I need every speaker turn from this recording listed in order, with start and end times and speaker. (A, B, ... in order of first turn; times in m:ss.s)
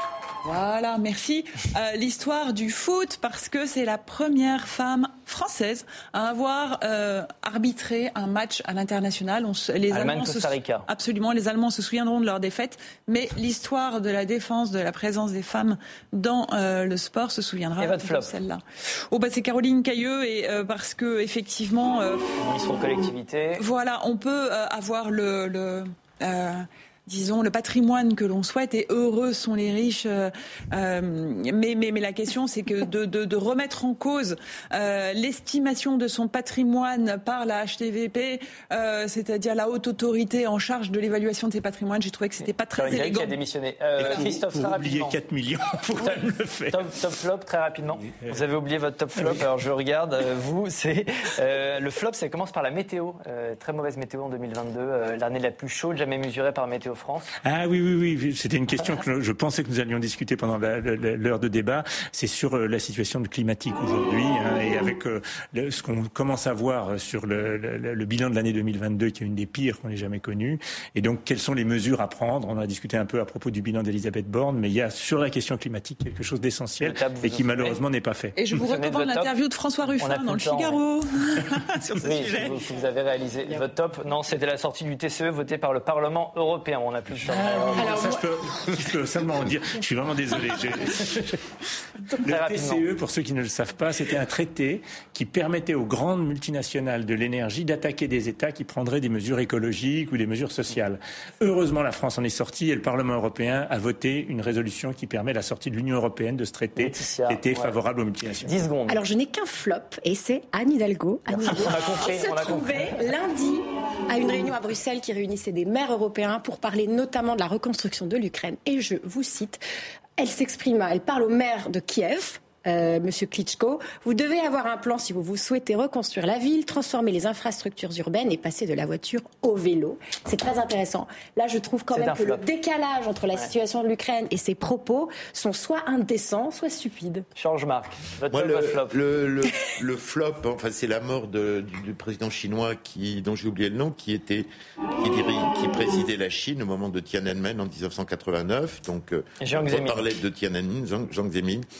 0:00.4-0:22.2 A
0:09.9-0:10.9 B
0:17.8-0:18.3 B
0:22.4-0:23.6 B
0:23.6-0:43.4 A
0:42.7-0:45.2 B
0:44.0-0:46.8 C
0:46.0-0:57.3 B
0:49.2-0:49.4 C
0:57.4-1:18.4 C
1:16.8-1:17.8 B
1:18.4-1:22.8 A
1:18.6-1:19.3 B
1:20.0-1:20.8 B
1:22.0-1:28.1 B
1:27.3-1:31.4 C
1:27.9-1:28.1 A
1:32.1-1:48.6 C
1:32.2-1:32.9 B
1:46.8-1:47.7 B
1:48.4-1:49.0 B
1:48.9-1:59.6 D
1:51.3-1:53.0 B
2:00.2-2:17.2 D
2:11.9-2:12.4 B
2:17.4-2:19.0 B
2:18.3-2:31.7 E
2:29.4-2:30.1 B